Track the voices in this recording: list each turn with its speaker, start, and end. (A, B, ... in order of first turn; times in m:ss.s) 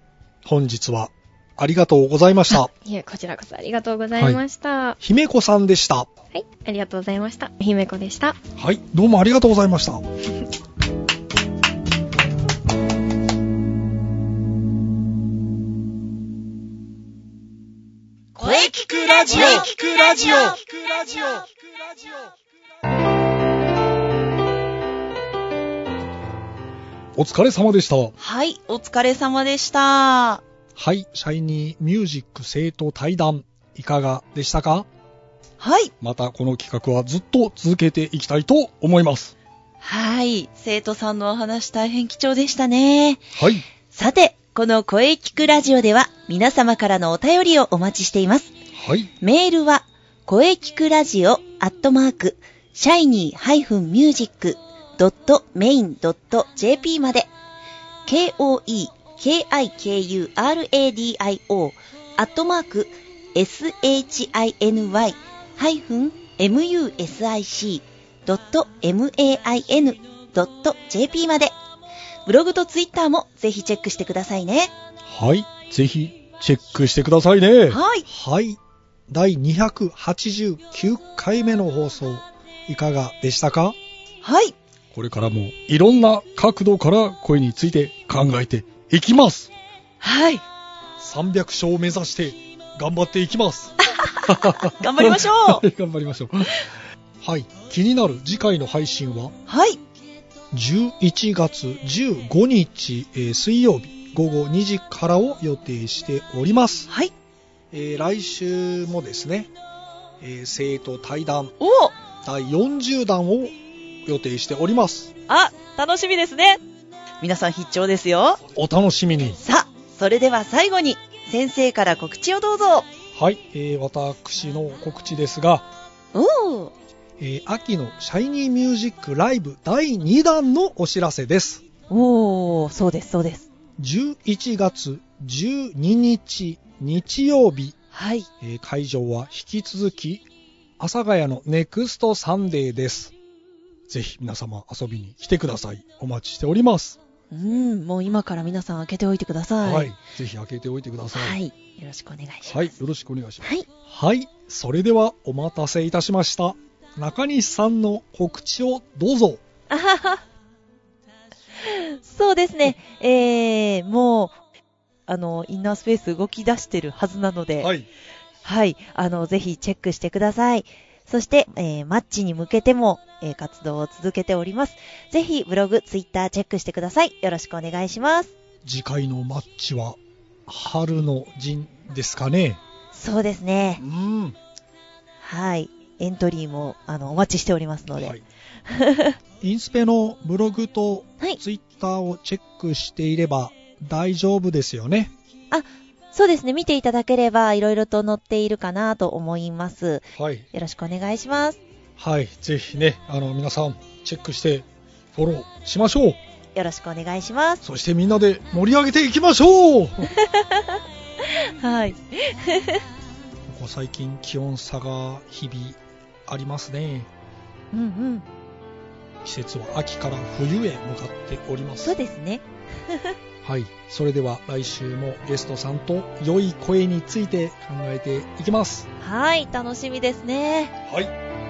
0:00.4-0:02.7 A
0:02.5-0:05.0 B
0:04.2-0:04.4 A
0:05.0-0:06.1 A
0:06.3-0:08.4 B
0:08.6-0:10.0 A
0:18.4-0:21.4 C
0:18.7-0:21.3 A
0:27.2-0:28.1 A
0:28.2-0:30.4 C
0:30.8-0:34.9 A
0:35.6-0:35.9 C
0:36.0-0:39.3 A
0:39.8-0:43.3 C
0:43.4-0:43.6 A
0:43.9-0:48.5 C
0:48.8-0:49.1 A
0:49.2-0:57.3 C
0:58.1-1:11.6 C
1:12.3-1:14.7 C
1:15.0-1:18.6 A
1:17.7-1:18.0 C
1:19.1-1:23.8 A
1:24.2-1:24.6 C
1:24.9-1:29.5 A
1:30.0-1:30.4 C
1:31.0-1:33.7 A
1:33.8-1:35.6 C
1:34.3-1:36.6 A
1:37.2-1:39.3 A
1:39.5-1:39.8 C
1:40.5-1:46.9 A
1:47.7-1:49.5 A
1:50.2-1:51.6 A
1:51.6-1:52.0 C
1:52.2-1:53.5 A
1:54.1-1:55.1 A
1:55.3-1:56.6 C
1:57.2-1:58.4 C
1:58.5-1:59.4 A
1:59.4-2:02.9 C
2:03.1-2:05.7 A
2:06.1-2:06.7 C
2:07.2-2:11.6 A
2:11.9-2:13.5 C
2:13.8-2:17.8 A
2:17.9-2:18.3 C
2:18.4-2:20.3 A
2:20.8-2:23.2 A
2:23.9-2:27.0 A
2:27.3-2:29.9 C
2:29.6-2:31.4 A
2:31.1-2:32.7 C
2:32.5-2:39.4 A
2:39.7-2:40.2 C
2:41.6-2:44.4 C
2:45.1-2:47.7 C
2:47.6-2:47.9 A
2:48.4-2:58.3 C
2:58.6-3:02.6 A
3:02.9-3:03.8 C
3:03.8-3:04.4 A
3:05.2-3:08.2 C
3:08.0-3:08.2 A
3:08.7-3:09.2 C
3:09.4-3:15.1 A
3:15.5-3:21.6 C
3:20.2-3:20.5 A
3:22.0-3:26.2 A
3:26.6-3:27.6 C
3:27.6-3:30.1 A
3:30.2-3:30.7 C
3:31.6-3:32.8 C
3:33.5-3:37.1 A
3:37.7-3:38.2 C
3:39.2-3:42.0 A
3:41.8-3:43.2 C
3:43.4-3:48.9 A
3:49.0-3:50.7 C
3:50.9-3:51.1 A